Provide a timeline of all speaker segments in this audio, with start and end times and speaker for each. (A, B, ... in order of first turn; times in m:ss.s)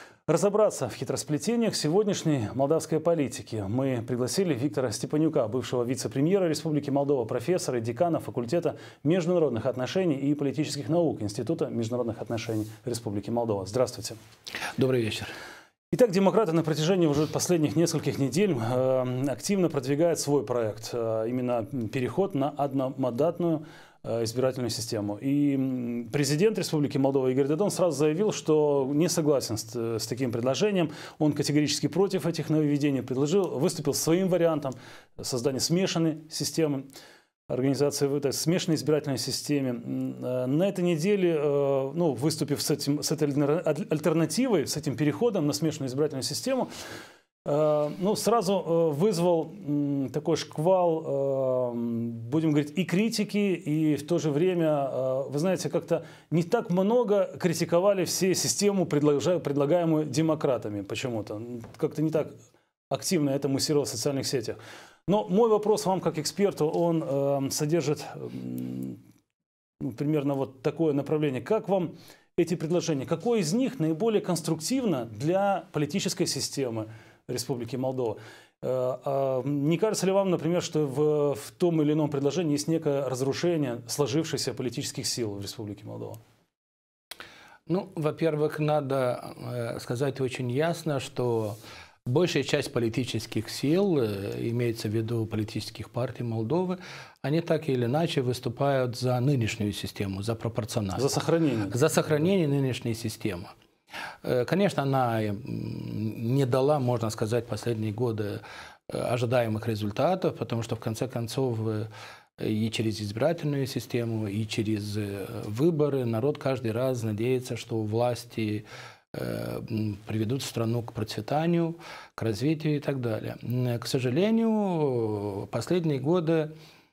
0:00.3-0:14.2 A
0:14.8-0:15.3 B
0:15.9-0:36.8 A
0:37.5-0:46.7 A
0:47.4-1:02.3 A
1:02.9-1:09.0 A
1:09.8-1:26.2 A
1:27.7-1:41.0 B
1:41.0-1:41.8 A
1:41.7-1:43.5 B
1:44.2-1:51.9 B
1:52.4-2:06.5 B